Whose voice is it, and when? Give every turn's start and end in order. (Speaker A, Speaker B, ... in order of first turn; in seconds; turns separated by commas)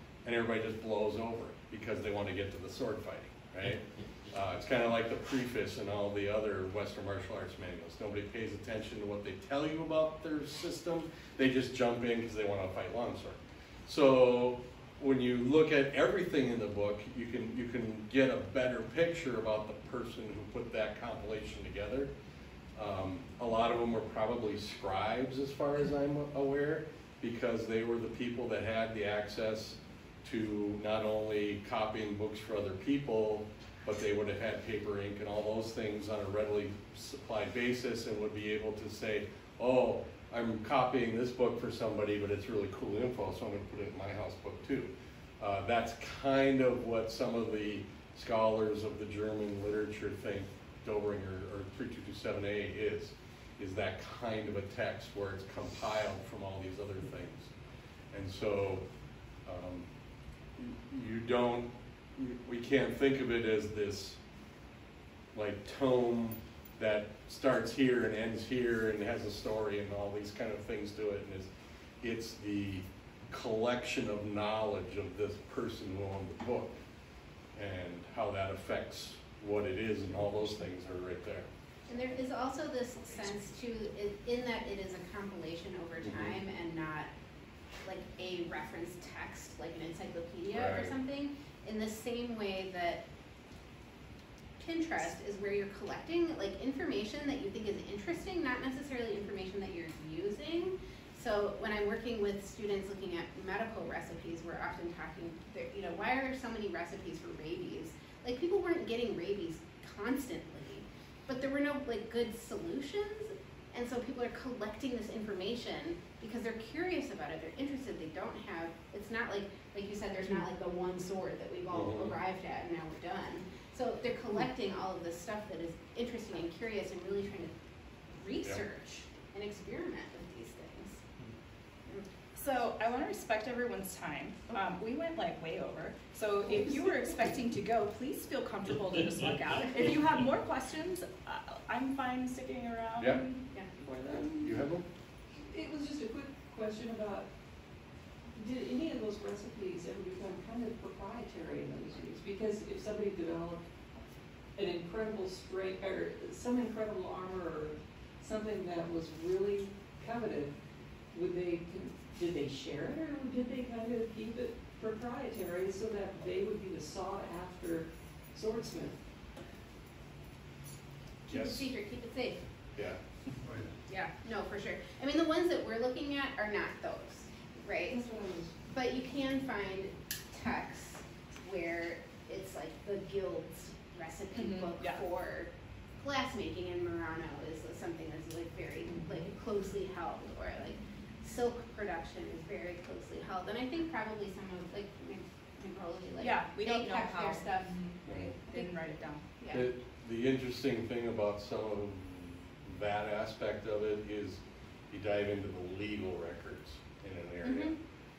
Speaker A: 0.2-22.1, Speaker A: 22.8-57.5, Speaker A: 58.1-58.8, Speaker A: 59.5-59.9, Speaker A: 60.6-64.2, Speaker A: 65.3-71.5, Speaker A: 72.0-76.8, Speaker A: 77.5-81.5, Speaker B: 81.9-87.1, Speaker A: 86.0-86.4, Speaker B: 87.8-93.0, Speaker A: 90.5-90.9, Speaker B: 94.6-127.5, Speaker A: 121.7-122.2, Speaker B: 128.1-131.0, Speaker C: 132.3-144.5, Speaker A: 144.4-144.8, Speaker D: 145.5-147.3, Speaker D: 148.4-153.6, Speaker D: 154.6-160.5, Speaker D: 161.1-169.0, Speaker B: 171.3-172.4, Speaker A: 171.3-171.7, Speaker B: 173.9-178.0, Speaker D: 177.9-178.5, Speaker B: 178.7-197.7, Speaker C: 184.3-185.0, Speaker C: 196.2-199.2, Speaker A: 198.1-198.3, Speaker B: 198.5-199.7, Speaker A: 199.5-204.4, Speaker A: 204.9-207.8, Speaker B: 207.4-207.8